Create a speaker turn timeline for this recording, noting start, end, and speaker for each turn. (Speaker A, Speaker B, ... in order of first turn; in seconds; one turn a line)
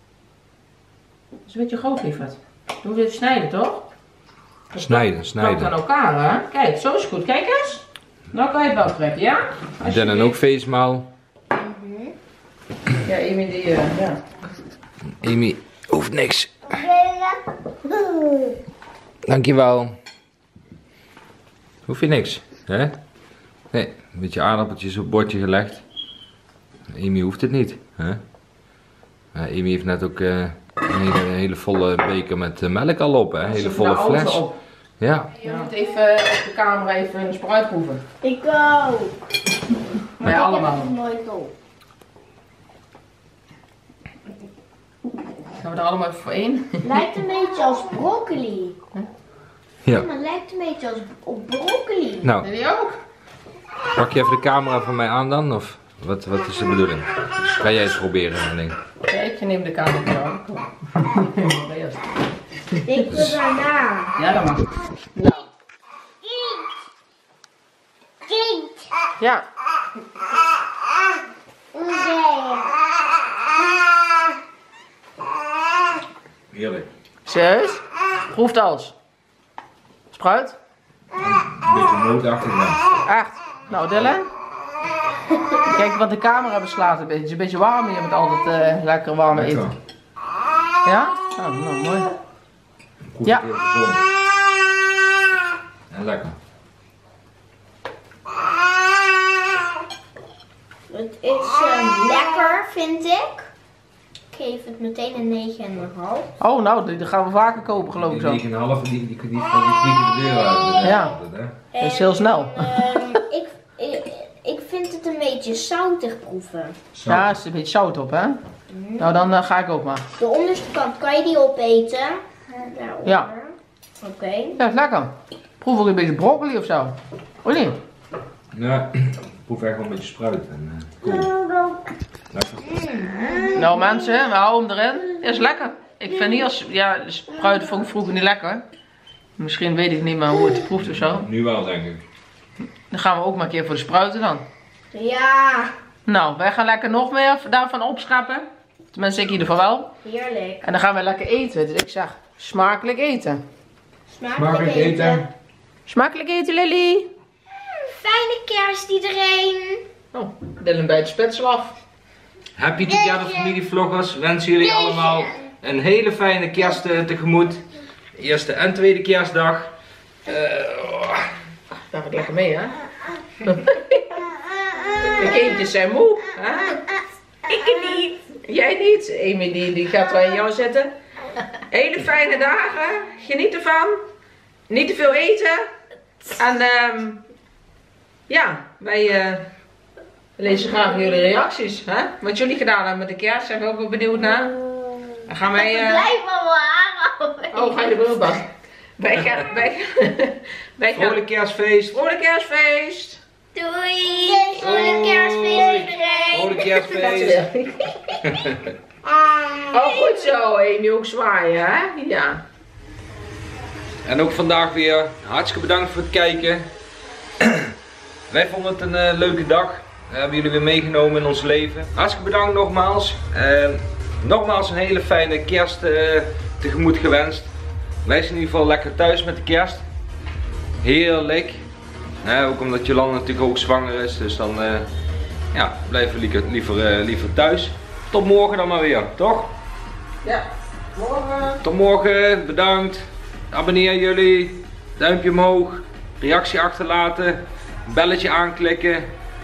Speaker A: 1.5-3.9
Speaker A: 4.7-10.4
Speaker B: 4.8-5.7
Speaker B: 9.8-11.1
Speaker C: 11.5-12.2
Speaker A: 13.0-14.2
Speaker B: 15.2-16.6
Speaker C: 16.7-18.5
Speaker B: 19.3-20.0
Speaker B: 21.9-23.0
Speaker B: 23.7-25.8
Speaker B: 26.9-28.2
Speaker B: 29.3-34.5
Speaker A: 33.4-34.6
Speaker B: 35.0-35.3
Speaker A: 35.4-38.0
Speaker C: 38.2-39.2
Speaker C: 40.2-41.5
Speaker A: 40.2-41.0
Speaker A: 45.6-46.9
Speaker C: 46.8-48.8
Speaker C: 49.9-52.3
Speaker A: 52.4-53.0
Speaker B: 54.0-58.8
Speaker A: 59.1-62.1
Speaker C: 62.8-64.2
Speaker B: 63.1-63.4
Speaker A: 64.2-65.5
Speaker C: 66.2-66.7
Speaker C: 68.3-68.9
Speaker C: 71.7-72.7
Speaker B: 76.5-76.9
Speaker A: 77.3-78.9
Speaker A: 80.1-80.6
Speaker B: 81.2-82.8
Speaker A: 83.1-84.3
Speaker A: 85.6-89.7
Speaker B: 89.3-89.8
Speaker A: 90.8-92.1
Speaker B: 93.1-94.0
Speaker B: 95.9-96.4
Speaker C: 100.9-103.5
Speaker C: 104.3-106.3
Speaker A: 106.4-108.4
Speaker B: 107.9-111.5
Speaker A: 110.8-111.2
Speaker C: 111.7-116.8
Speaker A: 111.8-113.1
Speaker B: 116.9-117.3
Speaker A: 117.1-118.4
Speaker C: 118.7-119.2
Speaker A: 119.0-120.0
Speaker C: 120.1-124.6
Speaker A: 123.0-123.3
Speaker A: 124.6-127.8
Speaker B: 128.5-131.3
Speaker C: 131.1-131.8
Speaker B: 132.3-132.8
Speaker A: 133.5-138.6
Speaker A: 139.4-141.3
Speaker B: 140.8-142.0
Speaker A: 142.9-144.4
Speaker C: 144.9-145.7
Speaker A: 146.1-149.9
Speaker C: 150.0-150.6
Speaker A: 150.6-153.4
Speaker C: 154.1-155.3
Speaker B: 154.3-155.3
Speaker A: 155.9-157.1
Speaker C: 157.9-159.8
Speaker A: 160.1-161.8
Speaker B: 162.6-167.6
Speaker C: 162.9-163.5
Speaker C: 164.8-165.3
Speaker B: 168.2-169.7
Speaker B: 170.2-171.3
Speaker A: 171.9-172.8
Speaker A: 173.4-174.2
Speaker A: 175.1-176.9
Speaker A: 177.5-180.9
Speaker A: 181.7-184.0
Speaker A: 184.7-185.7
Speaker A: 186.2-187.2
Speaker A: 188.3-189.5
Speaker A: 190.4-194.6
Speaker A: 195.3-196.1
Speaker C: 195.6-198.1
Speaker A: 197.5-201.2
Speaker B: 200.9-202.0
Speaker A: 201.9-203.2
Speaker C: 203.6-207.0
Speaker B: 204.6-207.4
Speaker A: 206.8-208.2
Speaker B: 208.3-208.7
Speaker C: 209.2-210.2
Speaker A: 209.7-212.4
Speaker B: 214.1-216.7
Speaker B: 217.4-217.7
Speaker B: 218.3-227.5
Speaker B: 228.1-229.9
Speaker B: 230.8-231.6
Speaker B: 232.2-234.9
Speaker B: 235.5-239.5
Speaker A: 240.2-241.6
Speaker B: 241.6-249.1